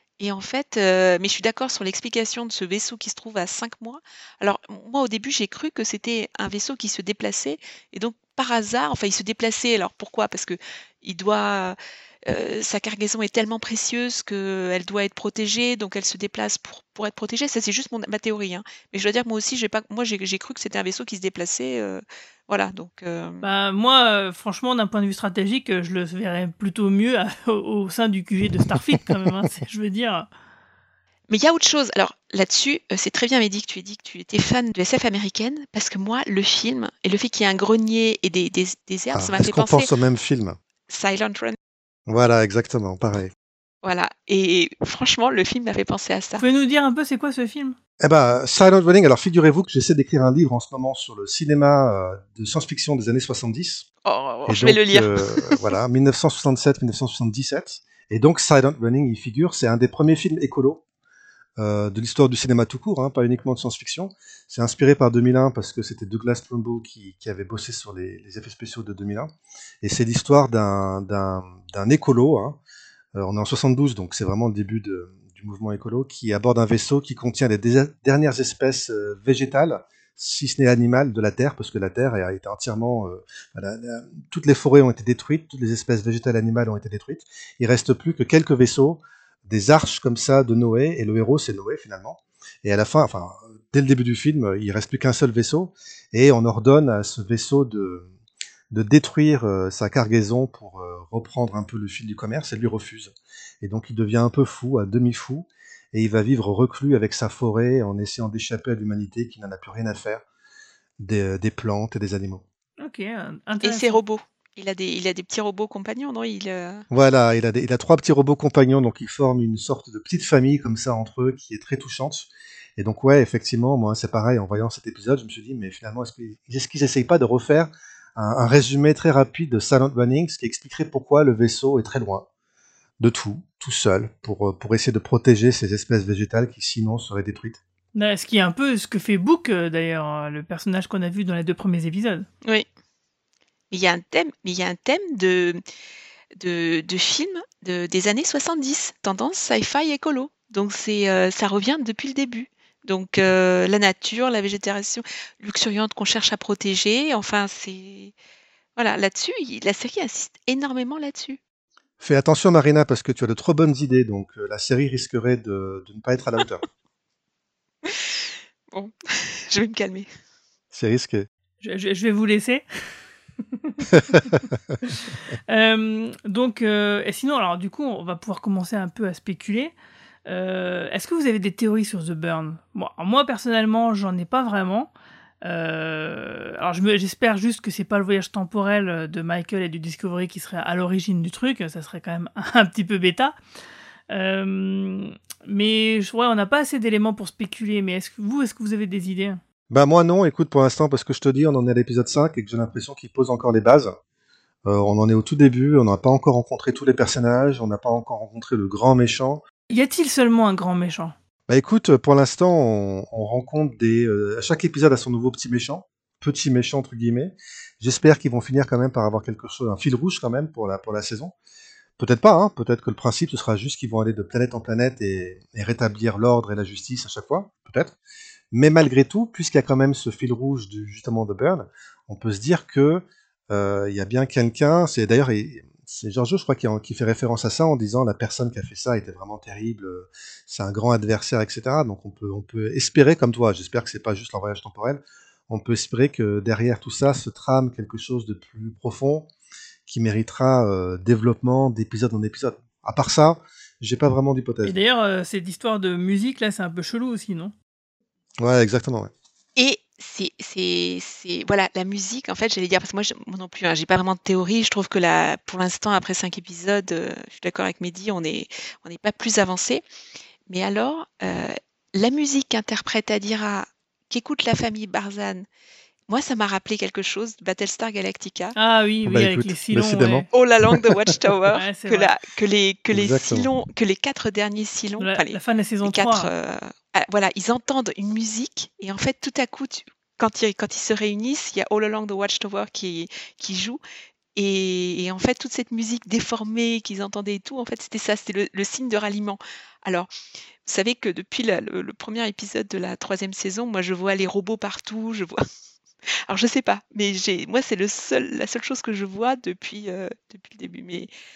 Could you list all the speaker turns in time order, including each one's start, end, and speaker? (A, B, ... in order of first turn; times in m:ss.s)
0:00.2-0:23.4 A
0:23.4-0:30.3 B
0:31.3-0:39.9 A
0:39.1-0:40.6 C
0:40.9-0:41.6 A
0:42.1-0:43.3 C
0:43.8-0:46.4 A
0:46.4-0:47.8 B
0:48.0-0:53.8 C
0:54.0-0:55.1 A
0:54.5-1:00.8 C
1:01.6-1:12.6 C
1:13.1-1:38.1 C
1:38.7-1:50.2 C
1:51.0-1:52.4 C
1:52.8-1:54.0 B
1:53.6-1:56.8 A
1:56.9-2:12.3 C
2:13.0-2:17.6 C
2:17.9-2:22.3 B
2:23.7-2:25.6 A
2:26.4-2:38.1 A
2:38.8-2:41.4 A
2:42.0-2:46.6 C
2:48.7-2:50.1 A
2:50.7-2:51.2 C
2:51.6-2:52.6 B
2:53.6-2:53.9 B
2:53.9-2:54.6 C
2:54.9-2:59.7 B
3:00.3-3:04.9 B
3:05.4-3:13.4 B
3:14.1-3:19.4 B
3:19.7-3:24.0 C
3:24.6-3:29.4 C
3:29.7-3:31.1 B
3:31.5-3:41.3 C
3:42.0-3:48.0 C
3:48.5-4:09.3 C
4:09.9-4:14.8 C
4:14.6-4:17.5 B
4:18.4-4:19.1 C
4:19.6-4:29.8 A
4:30.5-4:35.4 A
4:36.1-4:38.6 A
4:38.6-4:40.3 B
4:39.0-4:40.8 C
4:40.3-4:53.8 A
4:41.5-4:42.1 B
4:42.9-4:43.5 C
4:45.0-4:46.3 B
4:54.4-5:00.1 A
5:00.6-5:05.4 A
5:06.3-5:11.1 A